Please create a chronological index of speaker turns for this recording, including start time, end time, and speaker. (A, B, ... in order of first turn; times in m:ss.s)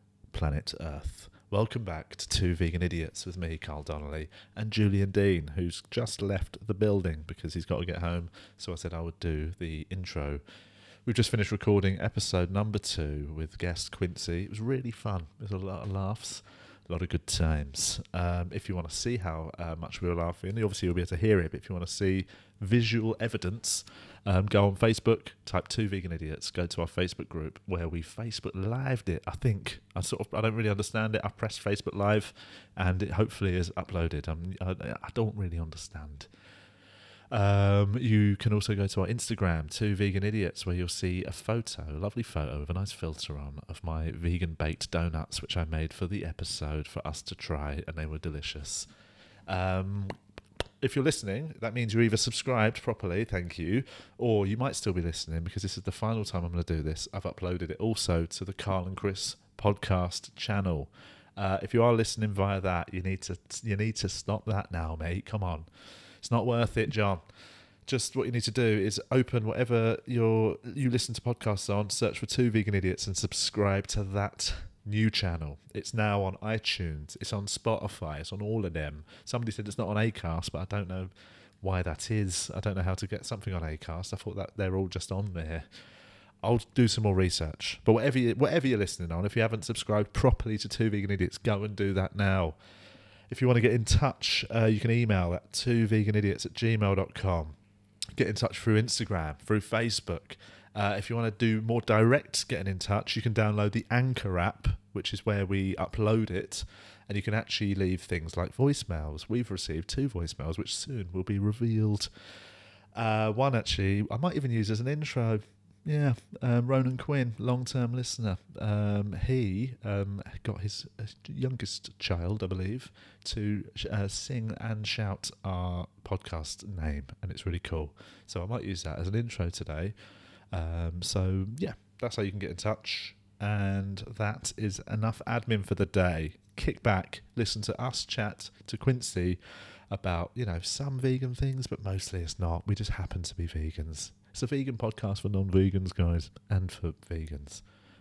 0:00.3-0:10.4 A
0:11.0-0:36.3 A
0:37.3-0:48.9 A
0:49.5-0:50.2 A
0:50.8-1:05.7 A
1:06.2-1:07.2 A
1:07.9-1:21.1 A
1:21.6-1:25.7 A
1:26.4-1:32.6 A
1:33.3-1:37.5 A
1:38.2-1:52.1 A
1:53.0-2:09.9 A
2:10.5-2:19.4 A
2:19.9-2:27.6 A